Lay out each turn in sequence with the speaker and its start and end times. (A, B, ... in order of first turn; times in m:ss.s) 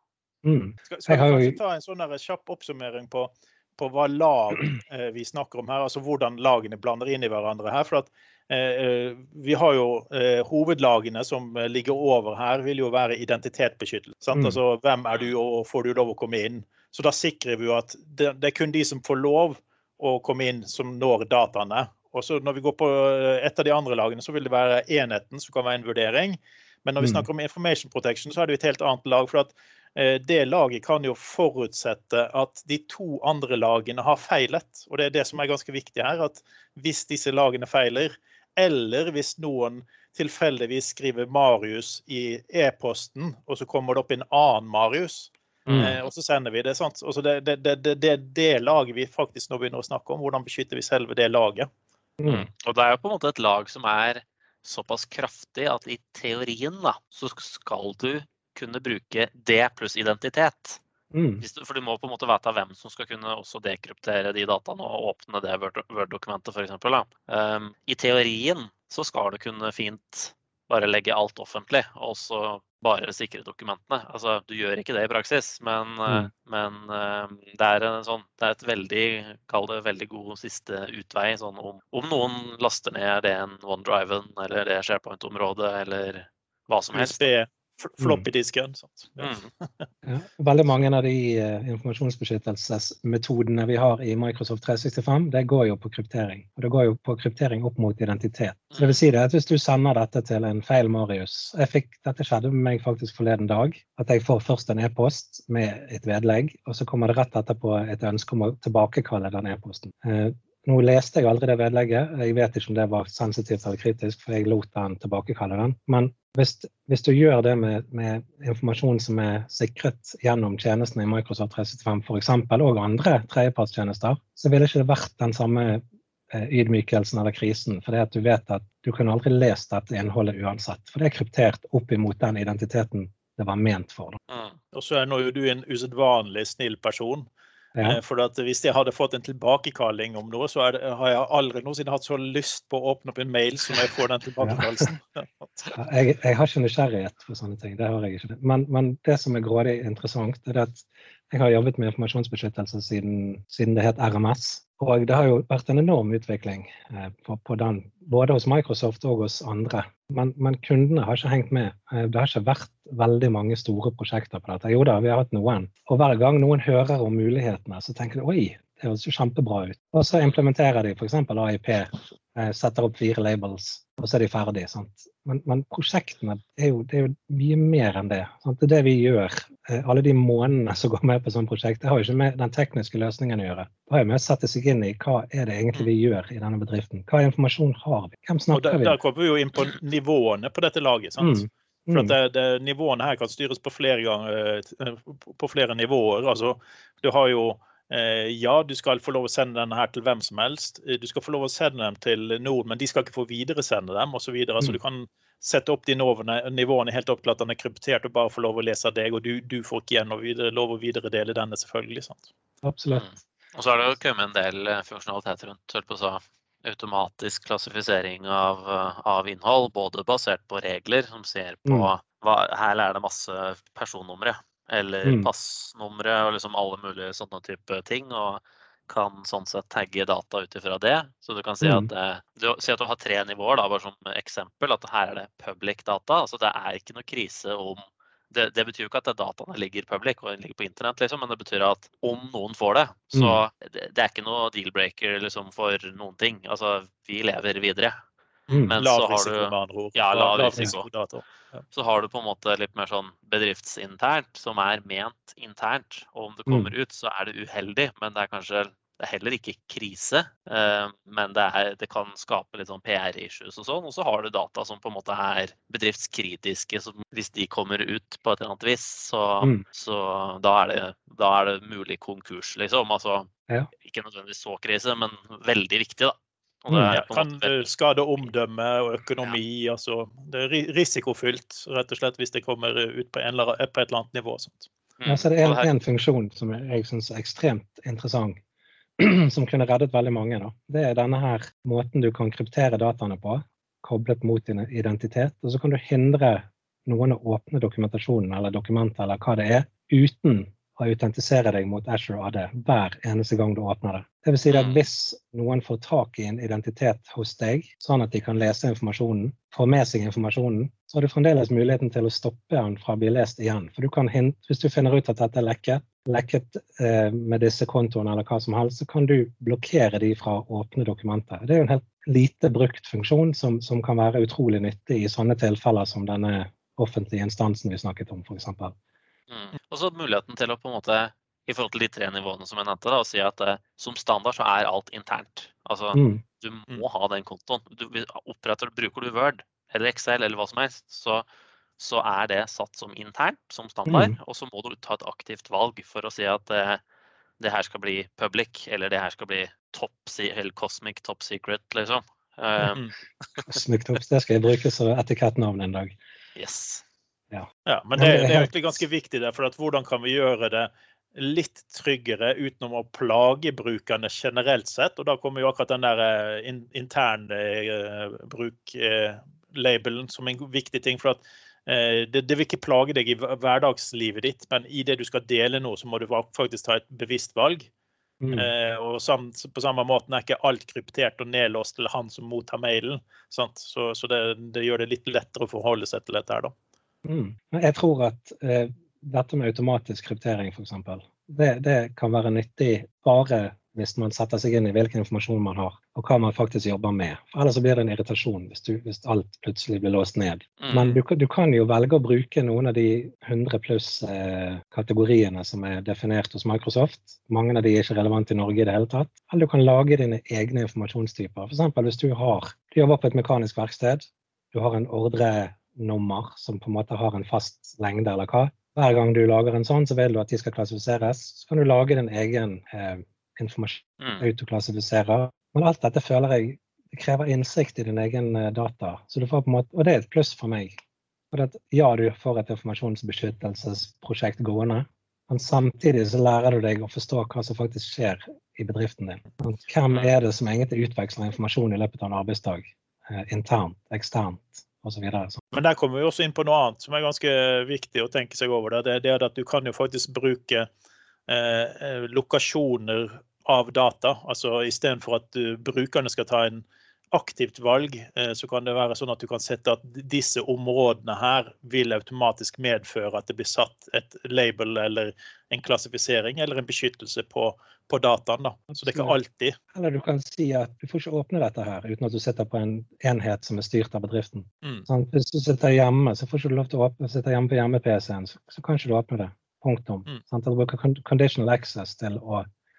0:00.4-0:01.6 A
0:00.9-0:51.7 B
0:14.3-0:14.6 A
0:27.0-0:27.3 A
0:45.7-0:46.0 C
0:45.7-0:46.0 A
0:52.2-0:52.5 A
0:52.3-1:00.8 C
1:01.1-1:01.4 A
1:01.4-1:27.3 C
1:26.9-1:29.8 B
1:28.0-1:28.3 A
1:29.2-1:29.5 C
1:30.0-2:14.2 A
1:38.7-1:39.0 C
2:14.3-2:14.6 C
2:14.7-2:17.3 B
2:17.8-2:18.0 A
2:17.8-2:25.8 B
2:24.4-2:24.8 A
2:25.8-3:09.0 A
2:50.2-2:50.4 C
3:08.5-3:32.3 B
3:11.2-3:12.2 A
3:32.6-3:33.1 A
3:32.9-4:07.9 C
3:41.6-3:41.9 A
3:45.0-3:45.3 A
3:51.6-3:51.9 A
4:03.1-4:03.4 A
4:08.5-4:11.6 B
4:08.5-4:08.8 A
4:08.7-4:10.9 C
4:11.7-4:33.3 C
4:16.5-4:16.7 A
4:33.8-4:38.3 C
4:36.7-4:37.0 A
4:36.9-4:44.7 B
4:45.0-4:45.7 C
4:45.0-4:48.4 A
4:49.0-5:28.8 A
5:04.5-5:04.8 C
5:29.3-5:41.3 C
5:35.9-5:36.2 A
5:41.8-5:46.8 C
5:43.9-5:44.2 A
5:47.4-5:52.8 C
5:52.6-5:52.9 B
5:53.5-5:55.9 A
5:56.4-5:56.8 C
5:57.3-5:58.7 A
5:57.7-6:17.7 B
6:18.2-6:18.5 A
6:18.3-6:26.5 B
6:27.0-7:10.8 A
6:40.6-6:41.0 C
7:04.0-7:04.3 C
7:11.3-7:25.4 A
7:25.5-7:30.7 B
7:31.3-7:49.6 B
7:48.8-7:49.2 A
7:49.7-8:02.4 A